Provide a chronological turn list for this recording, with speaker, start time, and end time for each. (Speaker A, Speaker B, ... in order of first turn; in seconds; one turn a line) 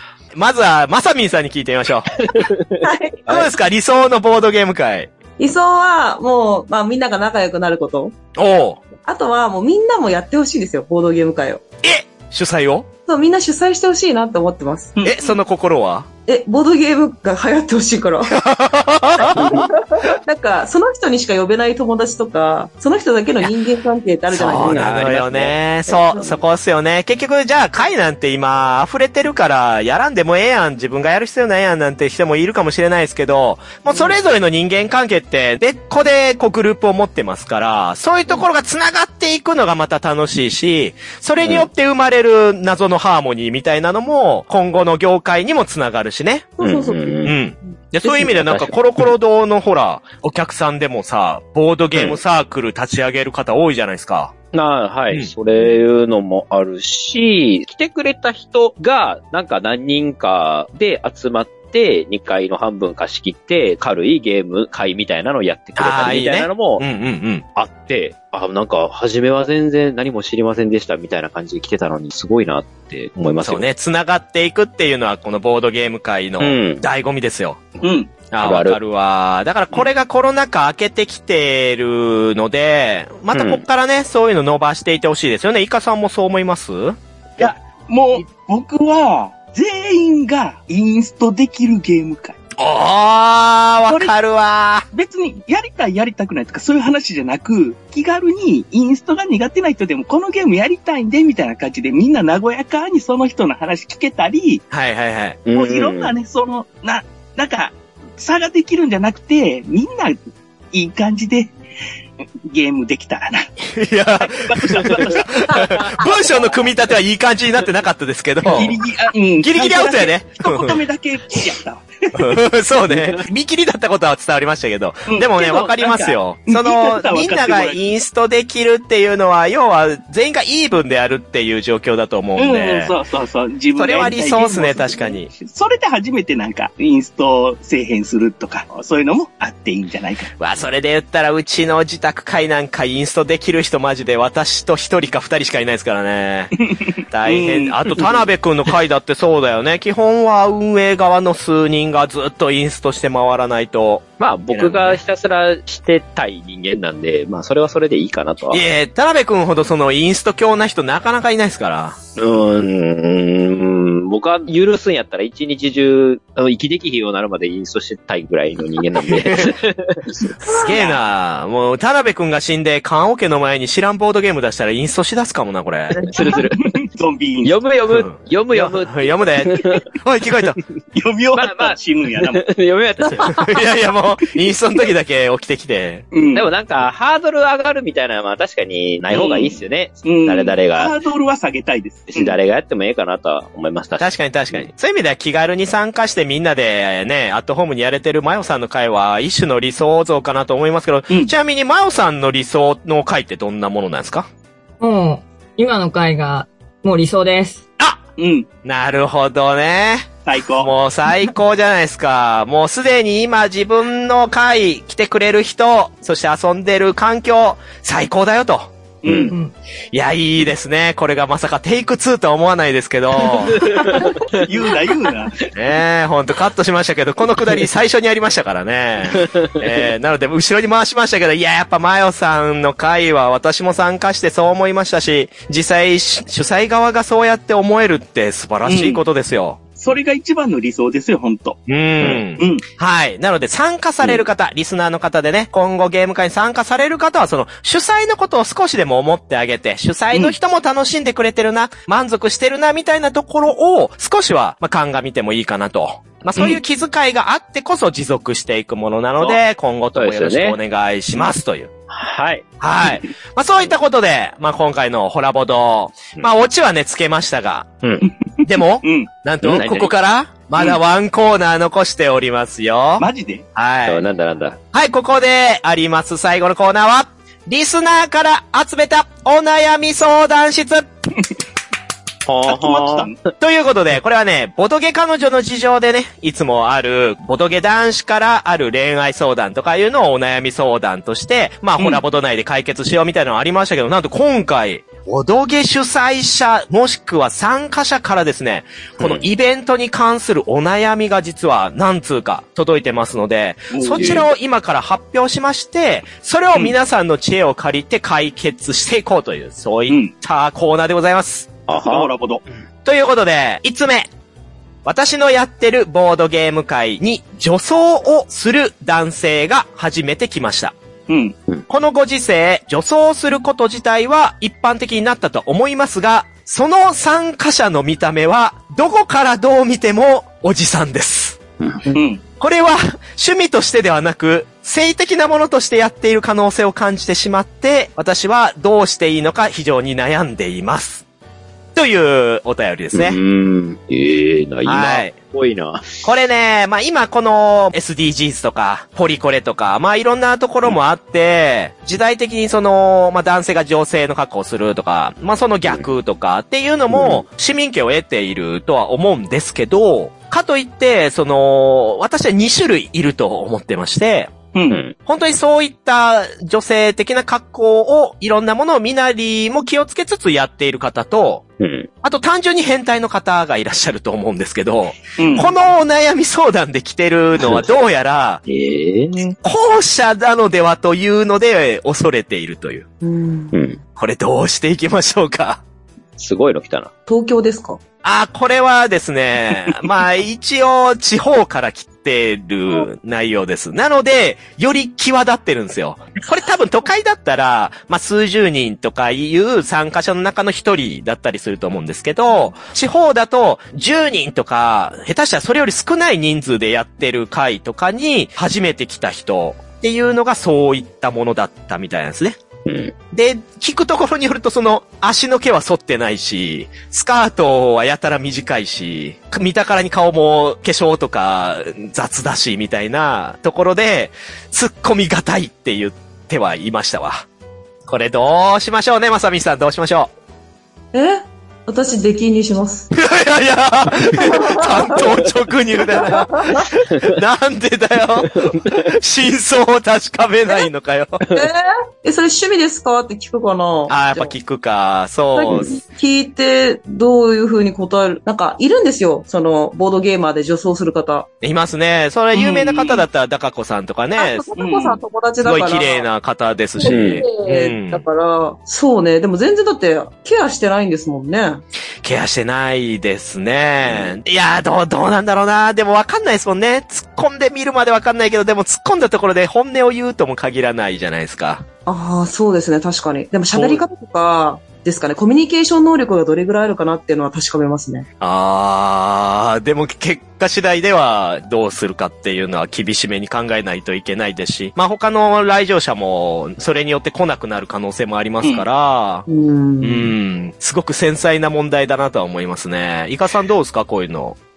Speaker A: 0.3-2.1
Speaker B: 2.2-3.5
Speaker C: 2.8-3.2
Speaker A: 3.3-5.1
Speaker C: 5.4-8.2
Speaker A: 8.4-8.8
Speaker C: 9.0-11.6
Speaker A: 11.8-12.9
Speaker C: 13.1-15.0
Speaker D: 15.0-15.3
Speaker A: 15.0-16.1
Speaker C: 16.3-18.4
Speaker A: 18.3-19.7
Speaker C: 19.4-25.1
Speaker A: 24.3-46.5
Speaker B: 24.4-25.6
Speaker C: 25.9-26.4
Speaker B: 41.4-41.7
Speaker C: 46.6-47.3
Speaker B: 46.6-47.4
Speaker A: 47.2-54.3
Speaker C: 48.0-48.3
Speaker B: 48.3-48.8
Speaker B: 54.5-66.8
Speaker A: 65.8-67.5
Speaker B: 67.6-73.7
Speaker A: 73.4-77.6
Speaker B: 76.4-76.8
Speaker D: 77.8-78.2
Speaker A: 78.3-87.5
Speaker B: 78.4-78.8
Speaker B: 83.3-83.6
Speaker D: 87.4-92.4
Speaker A: 92.6-94.8
Speaker D: 93.9-94.1
Speaker D: 94.9-104.6
Speaker A: 104.7-105.4
Speaker B: 105.5-106.1
Speaker D: 105.5-110.2
Speaker D: 110.7-111.5
Speaker D: 112.5-113.5
Speaker A: 113.7-118.8
Speaker D: 114.2-116.8
Speaker D: 118.5-122.4
Speaker A: 119.4-120.8
Speaker A: 122.1-132.9
Speaker B: 122.9-123.2
Speaker D: 125.1-127.8
Speaker D: 132.4-140.3
Speaker A: 133.8-135.3
Speaker A: 140.4-146.5
Speaker D: 146.6-148.1
Speaker A: 147.1-155.0
Speaker B: 154.2-158.6
Speaker A: 158.5-162.0
Speaker B: 162.2-170.1
Speaker A: 169.1-169.6
Speaker D: 170.2-171.0
Speaker A: 170.4-176.0
Speaker C: 170.5-170.8
Speaker B: 175.9-176.7
Speaker D: 176.2-177.6
Speaker B: 177.4-179.8
Speaker A: 177.9-180.6
Speaker D: 180.9-182.4
Speaker B: 181.3-183.6
Speaker A: 183.2-186.1
Speaker D: 186.1-186.5
Speaker B: 186.3-190.9
Speaker D: 189.1-192.4
Speaker B: 192.1-194.7
Speaker A: 194.0-204.3
Speaker E: 204.8-207.6
Speaker D: 208.2-208.5
Speaker A: 208.6-219.3
Speaker D: 210.2-210.7
Speaker D: 219.0-219.3
Speaker A: 219.9-223.7
Speaker B: 223.5-224.4
Speaker D: 224.3-225.4
Speaker A: 225.5-239.6
Speaker B: 229.1-229.5
Speaker D: 238.7-239.0
Speaker D: 239.8-241.6
Speaker A: 241.7-261.7
Speaker D: 242.4-242.7
Speaker B: 259.9-260.6
Speaker B: 261.9-262.4
Speaker A: 262.6-267.7
Speaker B: 267.8-268.1
Speaker A: 268.4-274.0
Speaker D: 268.8-269.1
Speaker B: 269.4-269.9
Speaker D: 273.0-273.4
Speaker B: 273.9-274.6
Speaker A: 274.7-280.9
Speaker B: 282.3-283.1
Speaker D: 282.5-283.1
Speaker A: 283.4-311.5
Speaker D: 303.7-304.3
Speaker B: 304.0-304.3
Speaker B: 311.7-312.1
Speaker D: 311.7-312.4
Speaker A: 312.9-314.1
Speaker A: 314.9-320.8
Speaker D: 321.1-321.4
Speaker A: 321.7-331.4
Speaker D: 331.9-332.2
Speaker A: 332.4-341.0
Speaker A: 341.8-343.2
Speaker B: 342.9-346.1
Speaker A: 344.6-345.2
Speaker A: 346.0-364.4
Speaker B: 356.9-357.2
Speaker D: 364.5-364.8
Speaker B: 364.7-364.9
Speaker A: 365.0-371.4
Speaker B: 371.6-371.9
Speaker A: 372.0-378.4
Speaker D: 375.2-375.5
Speaker B: 377.4-377.7
Speaker B: 378.5-379.3
Speaker A: 379.4-382.9
Speaker C: 383.0-383.5
Speaker B: 383.5-383.8
Speaker A: 384.0-385.6
Speaker B: 386.2-386.9
Speaker C: 387.1-387.8
Speaker A: 388.0-412.4
Speaker B: 412.7-412.9
Speaker A: 413.1-427.3
Speaker A: 427.9-430.1
Speaker C: 430.9-432.9
Speaker A: 432.9-441.2
Speaker C: 434.1-435.1
Speaker C: 435.9-436.7
Speaker B: 438.4-438.9
Speaker C: 441.3-444.3
Speaker A: 443.9-445.8
Speaker C: 445.3-451.3
Speaker B: 445.5-445.7
Speaker A: 451.4-454.5
Speaker D: 452.3-453.1
Speaker C: 454.2-456.1
Speaker D: 454.6-455.0
Speaker A: 455.4-458.1
Speaker C: 456.8-461.6
Speaker B: 456.9-457.2
Speaker A: 462.0-471.6
Speaker B: 463.9-464.1
Speaker C: 471.9-478.1
Speaker A: 473.5-473.8
Speaker A: 478.2-489.3
Speaker C: 489.3-490.1
Speaker A: 489.8-494.4